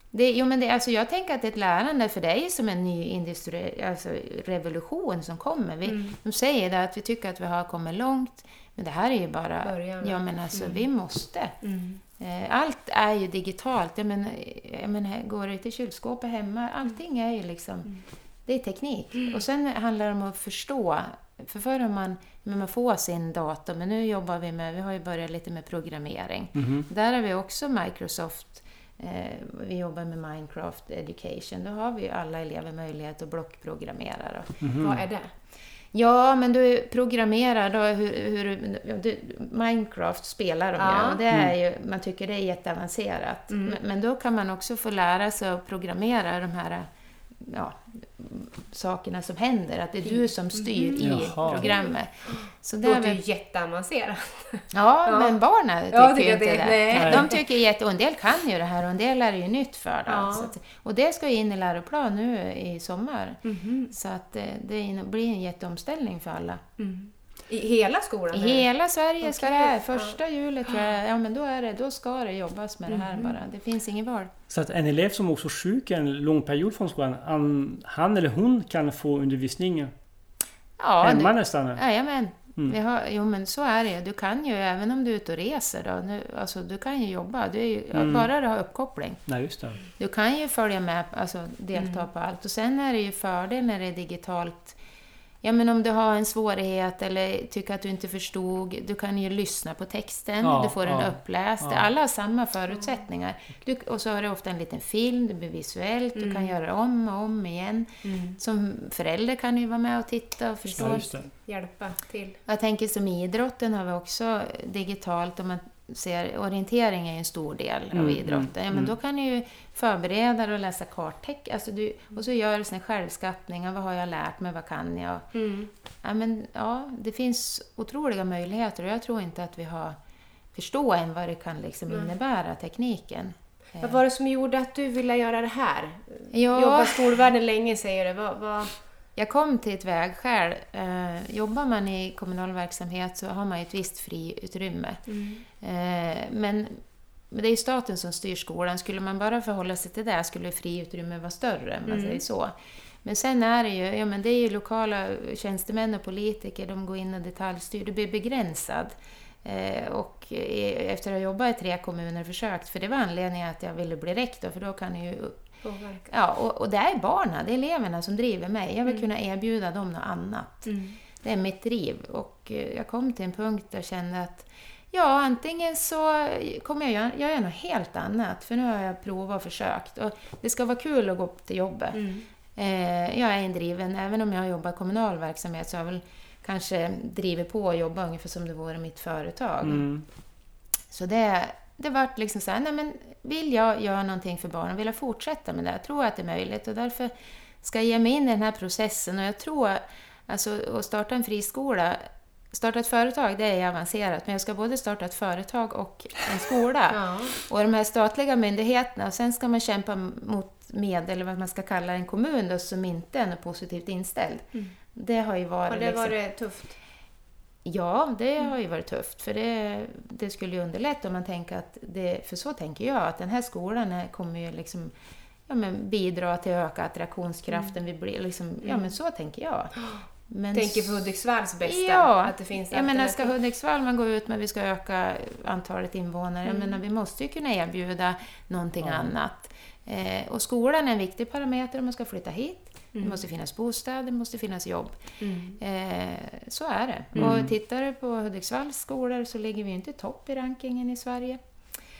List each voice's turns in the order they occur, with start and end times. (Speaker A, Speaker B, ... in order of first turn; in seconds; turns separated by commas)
Speaker A: 0.1-11.6, Speaker B: 5.9-6.1, Speaker B: 9.6-10.8, Speaker B: 11.6-12.0, Speaker A: 12.2-34.5, Speaker C: 26.6-26.8, Speaker C: 34.6-35.0, Speaker B: 34.8-35.3, Speaker A: 35.9-53.2, Speaker B: 40.8-41.2, Speaker B: 43.5-43.8, Speaker B: 50.1-55.4, Speaker C: 51.0-51.6, Speaker A: 54.7-66.6, Speaker B: 55.9-57.5, Speaker C: 57.0-57.2, Speaker B: 60.1-60.5, Speaker B: 63.4-63.9, Speaker B: 66.8-68.7, Speaker A: 68.3-74.3, Speaker B: 69.2-70.2, Speaker B: 72.9-73.3, Speaker C: 74.5-79.9, Speaker A: 80.8-89.2, Speaker C: 81.0-81.8, Speaker C: 87.9-88.3, Speaker C: 89.3-89.8, Speaker A: 90.0-94.8, Speaker B: 91.7-92.0, Speaker A: 95.4-111.2, Speaker C: 100.4-101.9, Speaker B: 106.1-106.5, Speaker B: 108.0-108.4, Speaker C: 110.8-111.3, Speaker B: 110.8-112.4, Speaker A: 112.5-125.3, Speaker C: 117.9-118.9, Speaker B: 125.3-125.7, Speaker A: 126.0-130.0, Speaker A: 130.5-134.0, Speaker B: 133.8-138.8, Speaker A: 136.3-137.2, Speaker A: 139.2-145.0, Speaker B: 145.1-145.4, Speaker A: 145.6-165.4, Speaker B: 151.9-152.2, Speaker B: 165.6-166.1, Speaker A: 166.1-189.8, Speaker B: 170.7-170.9, Speaker B: 181.9-182.2, Speaker C: 189.6-190.1, Speaker A: 190.9-216.2, Speaker B: 206.9-207.3, Speaker B: 215.7-216.8, Speaker A: 217.6-224.9, Speaker A: 225.5-229.8, Speaker B: 228.6-228.9, Speaker A: 230.3-231.1, Speaker B: 230.5-233.3, Speaker A: 231.6-245.0, Speaker B: 236.4-236.7, Speaker C: 238.8-239.1, Speaker B: 242.9-243.2, Speaker B: 245.2-245.6, Speaker A: 245.6-251.4, Speaker C: 247.1-247.5